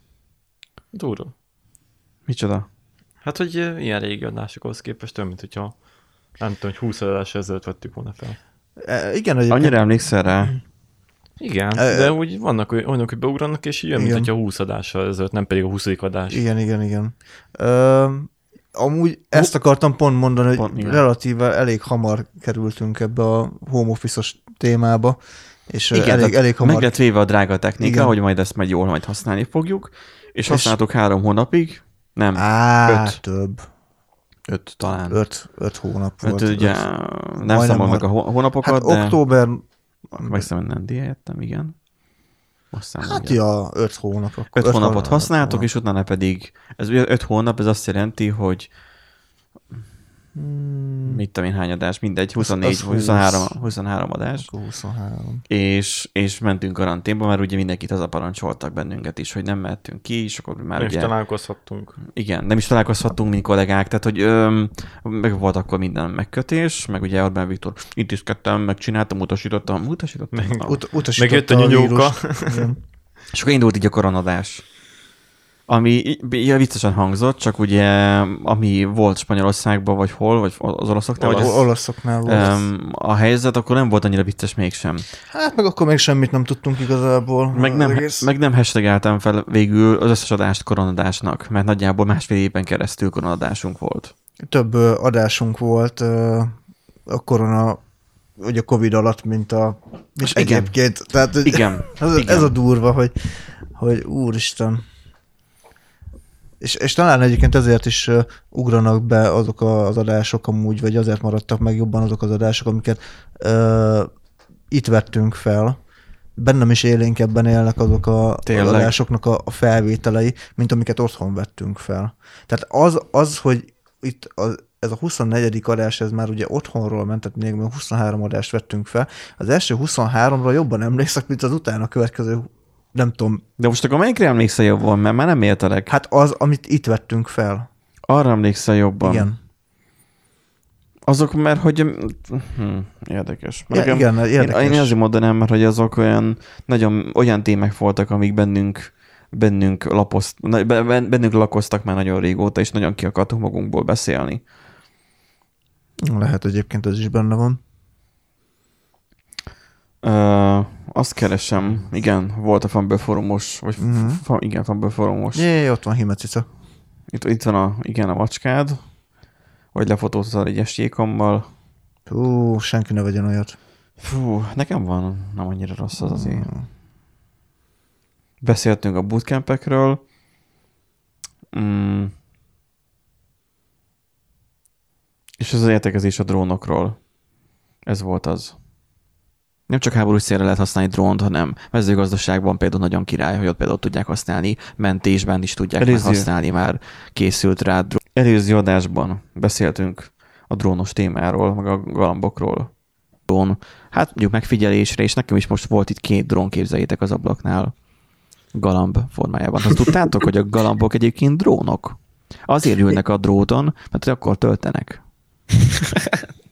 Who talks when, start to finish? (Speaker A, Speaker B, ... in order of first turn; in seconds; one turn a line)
Speaker A: 0.9-1.3
Speaker B: 2.3-2.7
Speaker A: 3.2-5.8
Speaker A: 6.3-8.4
Speaker C: 8.8-9.9
Speaker B: 9.5-10.6
Speaker A: 11.4-16.4
Speaker C: 11.7-12.1
Speaker C: 13.9-14.3
Speaker C: 16.3-27.0
Speaker B: 20.6-21.0
Speaker B: 25.9-33.2
Speaker C: 27.8-28.1
Speaker C: 30.5-30.8
Speaker C: 32.3-33.7
Speaker B: 34.5-35.2
Speaker C: 35.1-40.5
Speaker B: 36.2-39.2
Speaker B: 40.1-41.8
Speaker B: 42.7-43.4
Speaker C: 43.0-45.7
Speaker B: 44.5-48.7
Speaker C: 50.4-51.2
Speaker B: 51.0-54.5
Speaker C: 52.4-53.6
Speaker C: 54.4-55.4
Speaker B: 55.5-61.1
Speaker A: 60.8-62.0
Speaker B: 62.1-70.8
Speaker A: 70.3-72.7
Speaker C: 70.7-72.8
Speaker B: 73.3-74.6
Speaker B: 75.7-81.7
Speaker C: 81.2-82.7
Speaker A: 81.3-81.5
Speaker B: 82.2-85.1
Speaker C: 85.3-88.3
Speaker B: 87.5-94.1
Speaker C: 94.4-96.5
Speaker C: 97.0-97.8
Speaker C: 98.4-104.8
Speaker B: 100.2-100.8
Speaker B: 101.4-102.5
Speaker C: 106.6-114.1
Speaker C: 114.7-115.8
Speaker C: 116.3-133.4
Speaker B: 118.5-118.9
Speaker B: 133.6-135.9
Speaker C: 135.9-137.7
Speaker B: 138.1-139.3
Speaker C: 139.0-139.4
Speaker B: 141.1-154.4
Speaker C: 143.7-144.9
Speaker C: 156.0-157.6
Speaker B: 160.0-165.4
Speaker C: 163.8-164.2
Speaker C: 165.3-166.5
Speaker B: 167.1-168.8
Speaker B: 169.7-171.4
Speaker C: 172.1-173.6
Speaker B: 174.0-176.5
Speaker C: 176.0-176.7
Speaker B: 178.4-180.0
Speaker B: 181.5-182.1
Speaker B: 185.4-187.0
Speaker B: 187.8-188.6
Speaker B: 189.7-192.6
Speaker B: 194.6-202.7
Speaker B: 203.3-207.7
Speaker B: 208.5-215.0